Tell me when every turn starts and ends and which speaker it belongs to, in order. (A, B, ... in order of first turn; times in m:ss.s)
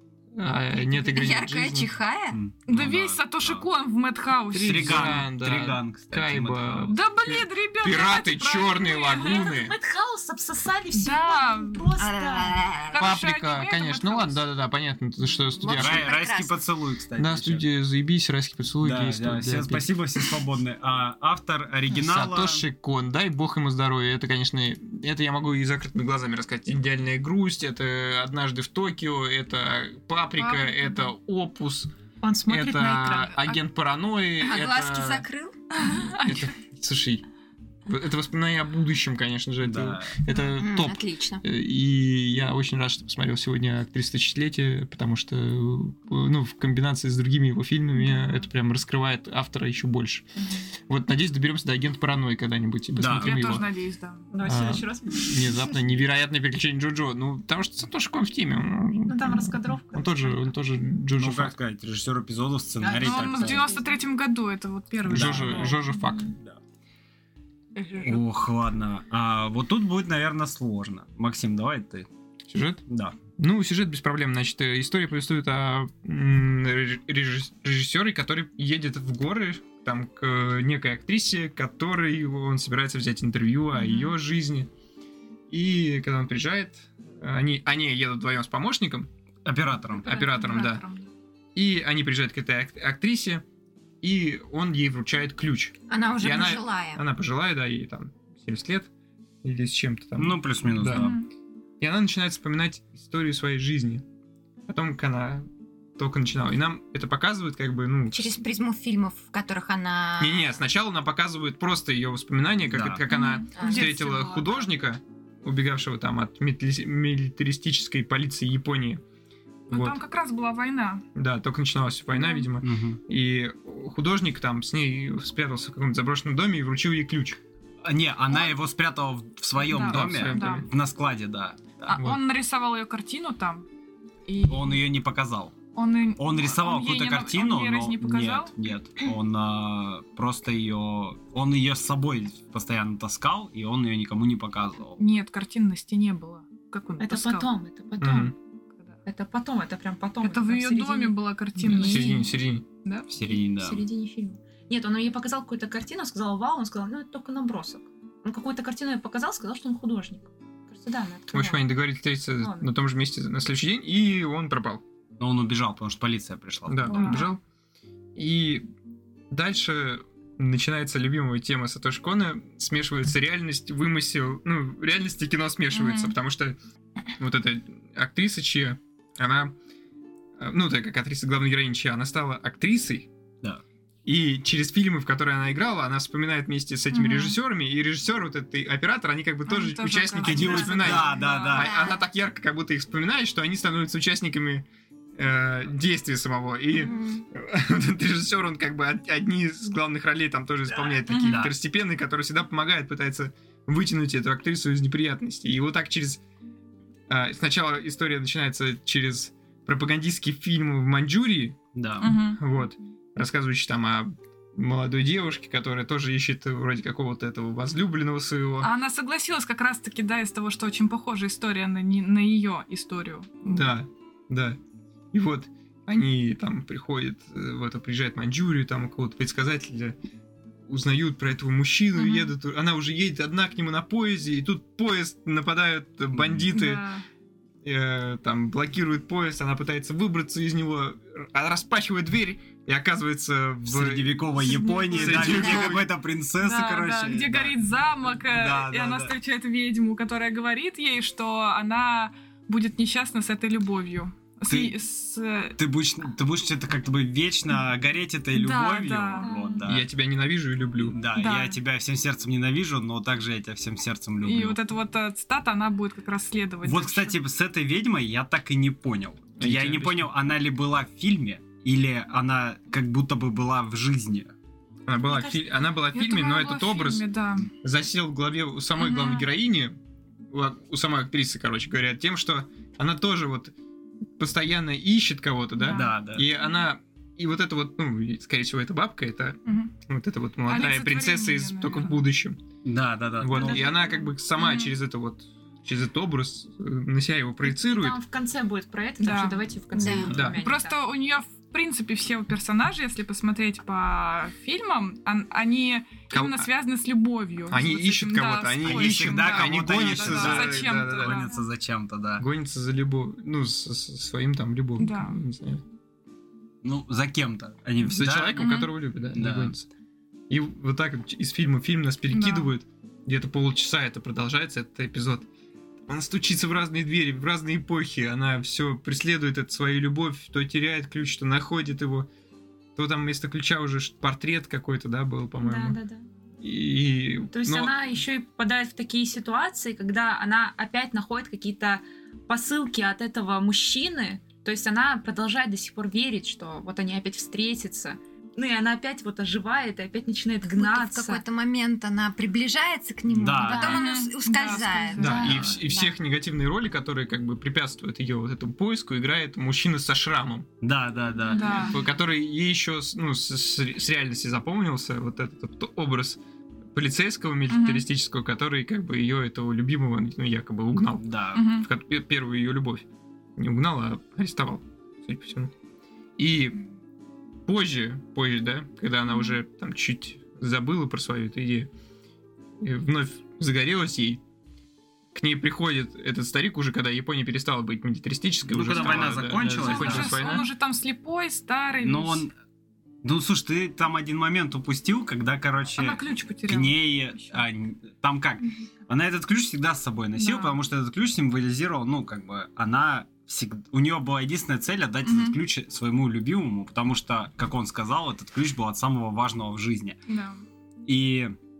0:00.3-0:01.9 A
0:00.8-0:02.4 B
0:02.3-0:03.7 C
0:02.7-0:05.2 D
0:04.5-0:09.7 A
0:04.6-0:07.0 C
0:06.9-0:09.5 D
0:09.1-0:12.8 E
0:10.9-0:11.9 D
0:12.0-0:13.1 B
0:12.9-0:14.4 D
0:13.0-0:16.1 A
0:15.6-0:16.6 B
0:15.7-0:17.6 C
0:17.2-0:20.2 A
0:18.8-0:22.6 C
0:21.9-0:31.9 A
0:30.4-0:31.1 D
0:32.2-0:33.4 E
0:32.4-0:35.2 A
0:33.3-0:33.6 D
0:34.4-0:35.5 B
0:35.7-0:36.5 D
0:35.9-0:37.2 A
0:37.8-0:53.7 A
0:39.6-0:40.2 C
0:40.5-0:41.4 B
0:50.4-0:50.7 E
0:52.9-0:53.6 C
0:53.1-0:54.3 D
0:54.3-0:55.6 E
0:54.4-1:01.5 A
0:59.1-1:00.5 E
1:01.2-1:03.7 C
1:02.8-1:03.8 E
1:03.0-1:05.8 D
1:05.0-1:06.3 A
1:05.1-1:06.6 C
1:05.9-1:06.2 E
1:08.0-1:12.1 C
1:12.5-1:12.8 A
1:12.9-1:13.2 C
1:13.4-1:24.7 A
1:23.7-1:24.1 D
1:25.5-1:29.1 A
1:29.4-1:30.1 C
1:30.0-1:31.1 D
1:30.0-1:30.8 A
1:31.5-1:33.4 A
1:34.0-1:38.9 A
1:35.9-1:37.0 B
1:39.4-1:41.1 A
1:40.2-1:41.2 C
1:40.9-1:41.2 D
1:41.8-1:44.0 A
1:44.7-1:48.4 A
1:48.1-1:50.6 B
1:50.2-1:59.0 A
1:52.7-1:53.0 C
1:53.1-1:54.2 D
1:53.5-1:53.9 B
1:59.7-2:01.0 D
1:59.7-2:00.0 A
2:01.1-2:07.4 A
2:02.1-2:02.4 D
2:02.6-2:03.0 C
2:07.8-2:12.0 C
2:08.3-2:08.5 D
2:09.6-2:10.7 D
2:09.8-2:10.6 A
2:11.9-2:13.6 D
2:11.9-2:12.2 A
2:14.2-2:14.8 D
2:14.5-2:15.6 C
2:15.7-2:18.5 D
2:16.2-2:25.0 C
2:25.0-2:27.5 D
2:27.0-2:28.3 E
2:28.0-2:28.3 A
2:29.0-2:31.1 E
2:30.2-2:33.1 D
2:31.6-2:32.6 A
2:31.7-2:32.1 E
2:33.1-2:33.8 C
2:33.2-2:41.7 E
2:41.3-2:44.8 A
2:42.4-2:42.7 E
2:45.2-2:47.1 C
2:46.7-2:47.4 A
2:46.9-2:47.3 D
2:48.2-2:48.7 A
2:49.3-2:56.6 A
2:55.7-2:56.1 D
2:57.2-2:59.5 A
3:00.4-3:03.1 A
3:04.0-3:14.6 A
3:06.9-3:07.4 D
3:09.4-3:11.6 D
3:10.2-3:11.8 C
3:11.5-3:12.0 B
3:15.2-3:26.2 A
3:16.8-3:17.2 B
3:21.1-3:21.4 D
3:21.2-3:21.5 C
3:27.1-3:38.7 A
3:31.7-3:32.1 C
3:32.0-3:32.4 D
3:38.6-3:43.7 D
3:43.4-3:44.6 A
3:45.1-3:50.0 A
3:50.7-3:56.8 A
3:52.0-3:52.3 D
3:56.1-3:56.4 C
3:56.5-3:57.0 D
3:57.6-4:04.3 A
4:03.6-4:07.6 C
4:04.4-4:05.7 D
4:04.9-4:05.9 A
4:05.3-4:05.7 B
4:06.4-4:15.6 D
4:08.2-4:09.2 C
4:14.5-4:14.7 C
4:15.6-4:19.9 C
4:18.3-4:19.3 D
4:19.2-4:19.7 E
4:19.6-4:21.0 A
4:20.8-4:24.6 C
4:21.1-4:21.6 D
4:24.2-4:27.2 D
4:26.6-4:34.3 C
4:29.4-4:30.1 A
4:34.9-4:37.0 A
4:35.1-4:35.4 E
4:35.9-4:37.5 D
4:37.6-4:39.8 A
4:38.8-4:39.3 D
4:40.3-4:43.5 A
4:44.2-4:52.4 A
4:45.6-4:45.9 D
4:45.7-4:46.3 C
4:49.4-4:49.7 D
4:50.5-4:52.1 D
4:52.6-4:53.7 C
4:53.2-4:58.0 A
4:53.3-4:54.1 E
4:54.4-4:54.7 D
4:57.4-5:00.8 E
4:59.0-4:59.4 D
4:59.7-5:00.1 B
5:00.1-5:00.4 A
5:00.2-5:11.3 D
5:06.1-5:06.5 A
5:07.5-5:11.2 A
5:08.6-5:12.2 C
5:12.2-5:15.6 A
5:14.8-5:15.2 D
5:16.6-5:18.5 C
5:17.8-5:19.7 A
5:18.4-5:18.7 D
5:19.1-5:19.5 C
5:20.3-5:25.3 A
5:22.1-5:22.5 D
5:25.9-5:32.1 A
5:32.8-5:35.8 A
5:35.4-5:36.0 E
5:36.4-5:37.7 A
5:37.3-5:51.2 E
5:50.5-5:55.9 B
5:53.1-5:53.8 C
5:53.4-5:55.3 D
5:55.0-6:00.5 A
5:55.0-5:55.7 E
5:55.2-5:55.6 C
6:00.6-6:01.7 C
6:01.3-6:01.8 D
6:01.5-6:06.2 A
6:06.7-6:12.8 A
6:07.5-6:07.8 D
6:11.0-6:11.4 C
6:11.3-6:11.7 D
6:13.4-6:15.5 A
6:16.2-6:16.6 A
6:17.4-6:21.7 A
6:19.1-6:19.4 D
6:22.6-6:24.2 A
6:25.1-6:30.4 A
6:28.4-6:30.3 C
6:28.8-6:32.2 D
6:31.8-6:32.3 C
6:33.0-6:50.0 C
6:35.8-6:37.4 D
6:40.2-6:40.6 D
6:45.0-6:45.4 D
6:50.1-6:50.4 D
6:50.8-6:51.3 C